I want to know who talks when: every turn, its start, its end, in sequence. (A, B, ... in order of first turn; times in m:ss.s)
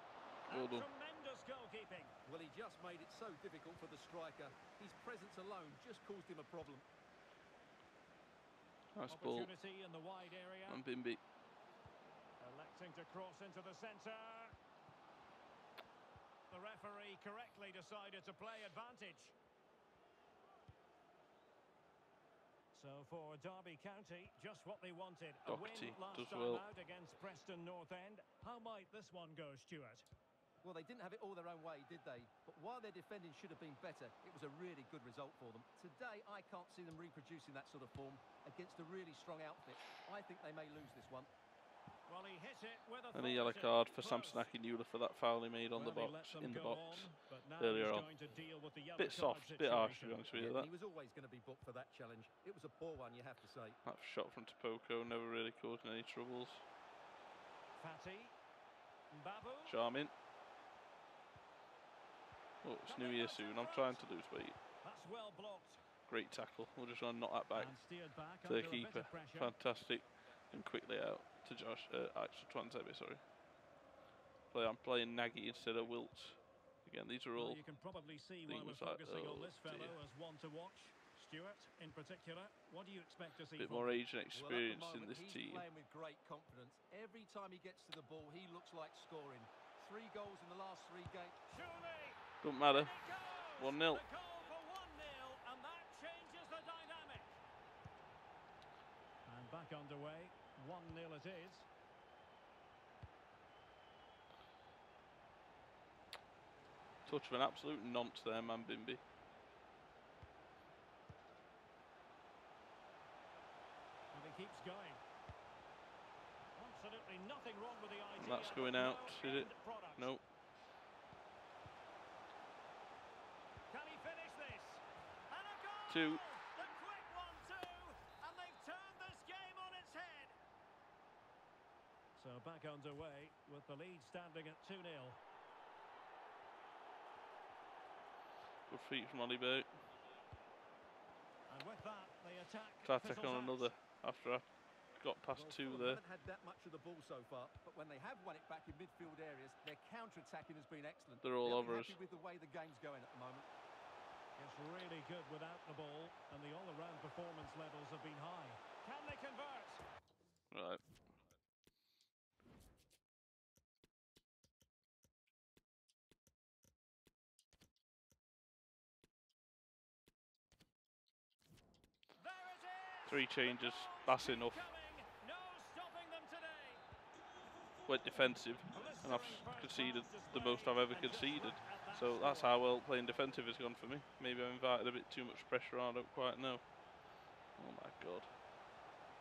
0:00.5-0:02.1 A
0:00.5-0:00.9 B
0:02.2-0:06.8 C
0:08.9-0:09.5 B
0:09.1-0:10.8 A
0:10.7-0:11.2 B
0:12.4-0:14.5 A
0:16.5-0:19.3 A
0:22.7-0:30.1 A
0:25.4-0:26.6 B
0:30.6-0:41.3 C
0:42.1-0:44.5 A
0:43.1-0:48.1 B
0:45.7-0:50.4 A
0:49.0-0:50.7 B
0:50.3-0:53.8 C
0:53.8-0:56.6 B
0:57.8-0:58.4 A
0:59.1-0:59.8 A
0:59.6-1:00.1 B
1:02.6-1:04.6 B
1:02.9-1:04.0 A
1:04.7-1:05.8 A
1:06.0-1:07.7 B
1:07.5-1:09.5 A
1:08.4-1:13.2 B
1:14.5-1:17.6 B
1:17.3-1:24.0 A
1:18.4-1:20.0 B
1:23.6-1:25.7 B
1:24.3-1:31.4 C
1:31.5-1:37.4 A
1:32.4-1:33.0 B
1:33.6-1:34.0 B
1:39.2-1:41.6 A
1:47.0-1:49.0 B
1:54.1-1:55.0 A
1:56.6-2:00.1 A
1:58.2-2:00.2 B
2:03.7-2:10.4 A
2:05.9-2:06.2 B
2:12.2-2:15.2 A
2:18.7-2:19.7 B
2:21.5-2:23.7 A
2:22.8-2:26.0 B
2:25.3-2:33.5 C
2:31.2-2:32.0 B
2:34.4-2:39.8 A
2:40.5-2:40.8 B
2:52.2-2:56.8 A
2:53.0-2:54.7 B
2:57.8-3:06.6 B
2:58.7-3:02.6 A
3:07.6-3:08.3 B